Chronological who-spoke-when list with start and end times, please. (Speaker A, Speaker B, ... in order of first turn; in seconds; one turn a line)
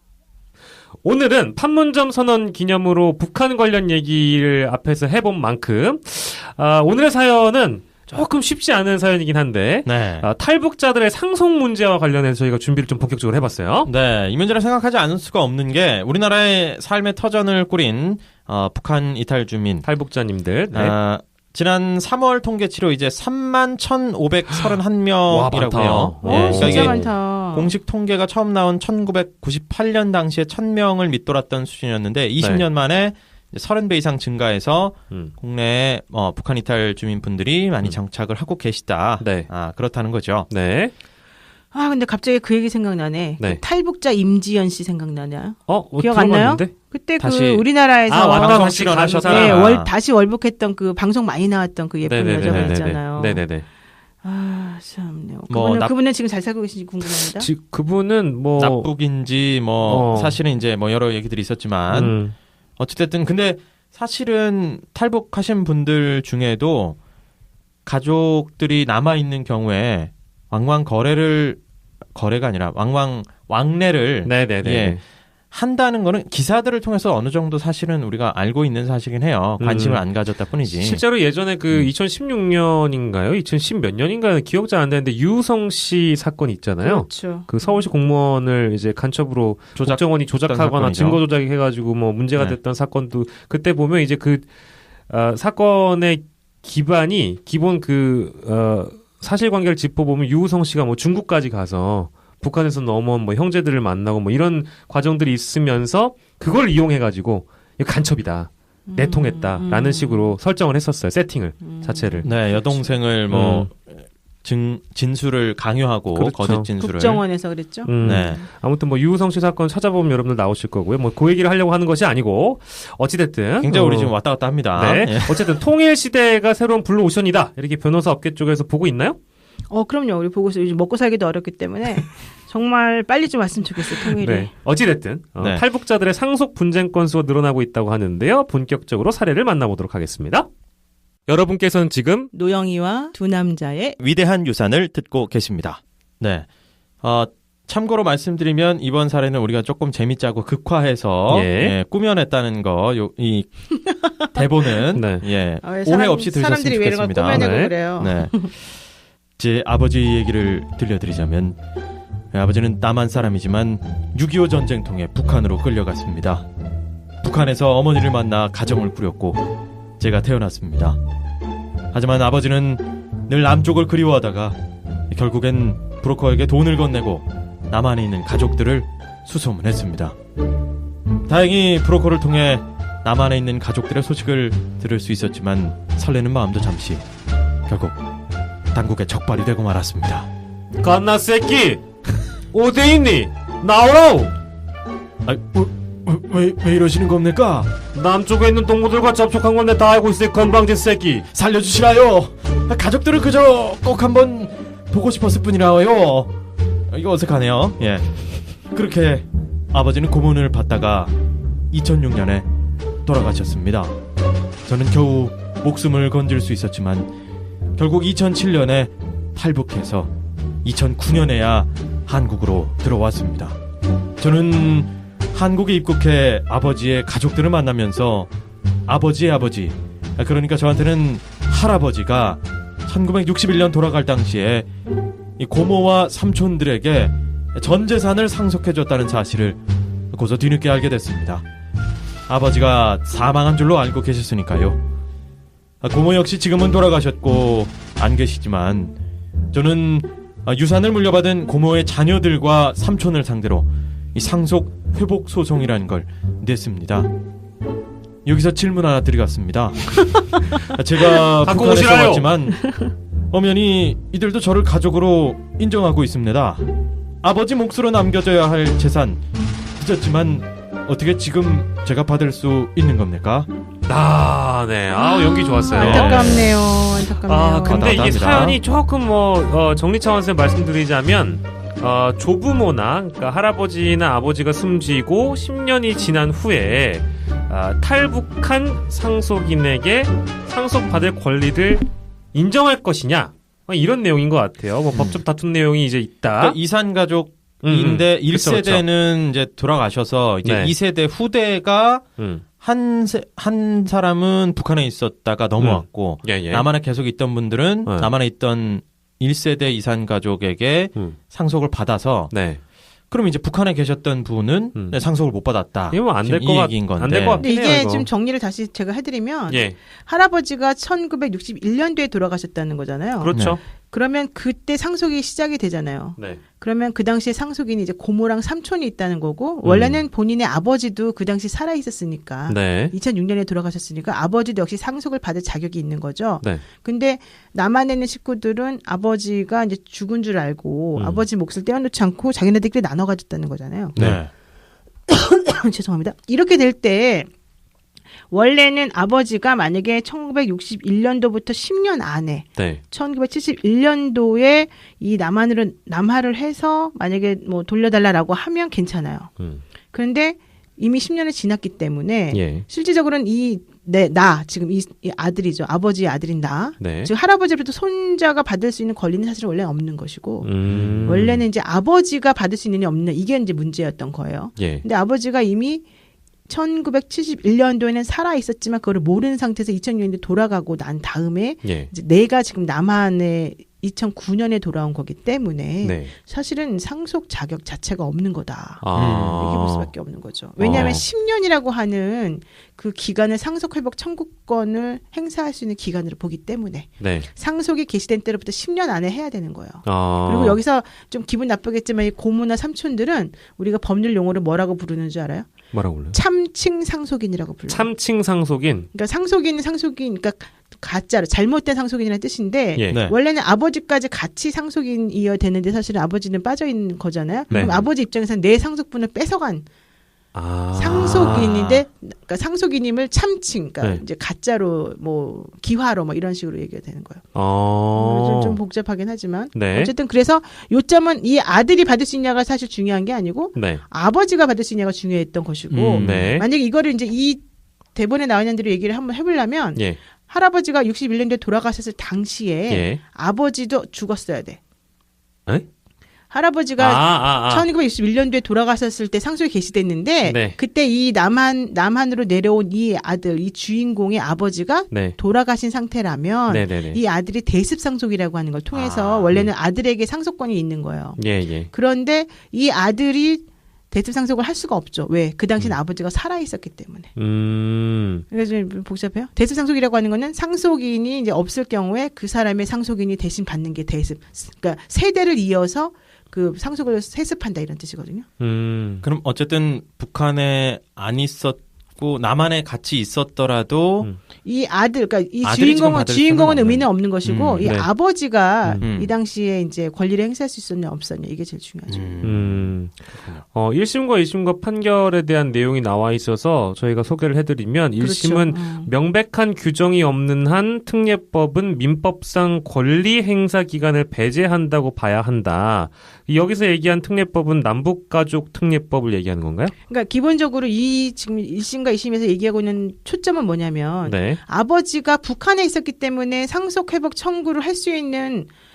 Speaker A: 1.0-13.9
Speaker B: 9.8-10.3
Speaker B: 13.8-19.9
Speaker A: 19.8-20.9
Speaker B: 20.7-40.5
Speaker A: 25.3-27.1
Speaker C: 26.2-27.7
Speaker A: 39.2-39.5
Speaker A: 40.5-40.9
Speaker C: 41.7-53.5
Speaker A: 45.7-46.7
Speaker B: 47.2-47.6
Speaker A: 47.9-49.7
Speaker B: 48.2-49.9
Speaker A: 52.1-53.7
Speaker B: 52.5-52.8
Speaker C: 54.2-57.5
Speaker B: 55.5-55.9
Speaker A: 57.0-58.9
Speaker B: 58.6-62.2
Speaker A: 59.9-60.4
Speaker A: 61.9-62.3
Speaker B: 62.8-67.0
Speaker B: 67.9-71.6
Speaker B: 72.2-75.0
Speaker A: 74.2-75.0
Speaker B: 75.5-81.0
Speaker A: 79.6-80.0
Speaker A: 80.6-94.5
Speaker C: 86.8-87.8
Speaker B: 89.8-91.2
Speaker A: 95.1-112.3
Speaker C: 108.9-110.3
Speaker C: 111.6-112.8
Speaker B: 112.2-117.2
Speaker A: 113.3-113.7
Speaker A: 116.1-116.7
Speaker C: 116.8-117.9
Speaker A: 117.8-129.2
Speaker B: 118.0-118.5
Speaker B: 123.6-125.5
Speaker C: 129.7-134.5
Speaker A: 134.1-140.5
Speaker A: 141.3-142.3
Speaker C: 142.3-144.0
Speaker B: 144.0-146.5
Speaker B: 147.0-158.5
Speaker A: 151.3-151.8
Speaker C: 153.9-154.2
Speaker A: 154.9-155.2
Speaker C: 155.6-158.5
Speaker A: 157.3-157.7
Speaker B: 159.4-161.6
Speaker B: 162.3-166.4
Speaker B: 167.2-169.5
Speaker B: 170.0-171.0
Speaker B: 171.9-174.6
Speaker B: 175.1-180.2
Speaker B: 181.3-187.1
Speaker B: 187.7-188.0
Speaker B: 188.7-190.3
Speaker A: 190.8-194.3
Speaker B: 195.2-197.7
Speaker A: 197.9-201.3
Speaker B: 201.3-206.3
Speaker B: 206.9-211.1
Speaker B: 211.7-212.5
Speaker B: 213.1-213.9
Speaker B: 214.7-217.1
Speaker B: 217.8-220.1
Speaker B: 220.6-223.6
Speaker B: 224.2-228.3
Speaker B: 228.9-234.7
Speaker B: 235.4-239.6
Speaker B: 240.1-241.4
Speaker B: 242.3-244.8
Speaker B: 245.8-249.0
Speaker B: 249.5-257.1
Speaker B: 258.2-262.7
Speaker A: 261.4-262.3
Speaker B: 263.3-266.6
Speaker B: 267.2-269.2
Speaker B: 269.8-273.5
Speaker A: 273.9-296.6
Speaker C: 274.9-278.1
Speaker B: 275.8-276.6
Speaker B: 277.6-278.6
Speaker B: 294.9-295.2
Speaker B: 296.4-302.0
Speaker A: 297.6-298.8
Speaker A: 300.4-300.7
Speaker A: 302.2-302.4
Speaker B: 302.6-312.3
Speaker A: 305.6-306.7
Speaker A: 312.3-312.6
Speaker B: 313.1-317.4
Speaker A: 315.9-318.1
Speaker C: 317.4-344.0
Speaker A: 319.5-319.8
Speaker A: 323.2-323.6
Speaker B: 323.3-323.6
Speaker A: 329.6-330.0
Speaker A: 332.5-332.9
Speaker A: 341.0-341.2
Speaker A: 343.9-344.2
Speaker B: 344.0-344.3
Speaker C: 345.1-347.3
Speaker C: 348.3-359.3
Speaker A: 352.6-352.8
Speaker C: 359.9-370.5
Speaker A: 362.3-362.6
Speaker A: 366.8-367.1
Speaker A: 370.4-371.4
Speaker B: 370.7-371.3
Speaker C: 371.1-375.9
Speaker A: 374.6-374.8
Speaker C: 376.5-405.5
Speaker A: 381.6-381.9
Speaker A: 385.8-386.1
Speaker A: 388.8-389.9
Speaker B: 388.9-389.3
Speaker A: 390.6-391.0
Speaker B: 390.6-391.0
Speaker A: 397.0-397.3
Speaker A: 399.9-400.6
Speaker A: 405.7-406.2
Speaker C: 406.1-407.9
Speaker A: 407.7-408.9
Speaker C: 408.9-419.7
Speaker B: 412.9-413.1
Speaker B: 417.5-417.8
Speaker A: 417.5-417.8
Speaker A: 420.3-421.8
Speaker C: 420.8-427.2
Speaker A: 427.4-428.6
Speaker C: 427.9-437.4
Speaker A: 429.5-429.9
Speaker A: 433.6-433.8
Speaker A: 435.7-436.5
Speaker B: 435.9-436.3
Speaker C: 437.9-444.6
Speaker A: 442.7-443.0
Speaker C: 446.3-467.1
Speaker A: 446.8-447.7
Speaker A: 450.2-450.6
Speaker A: 454.9-455.2
Speaker A: 456.5-457.0
Speaker B: 458.7-459.4
Speaker A: 461.2-461.7
Speaker A: 467.2-468.2
Speaker C: 468.3-478.3
Speaker A: 478.4-479.1
Speaker B: 479.0-484.1
Speaker C: 484.4-492.1
Speaker B: 485.4-487.7
Speaker A: 487.6-487.9
Speaker A: 488.5-488.9
Speaker B: 488.8-489.1
Speaker B: 491.9-493.4
Speaker A: 492.2-509.7
Speaker C: 498.0-498.9
Speaker C: 509.9-518.5
Speaker A: 514.0-514.4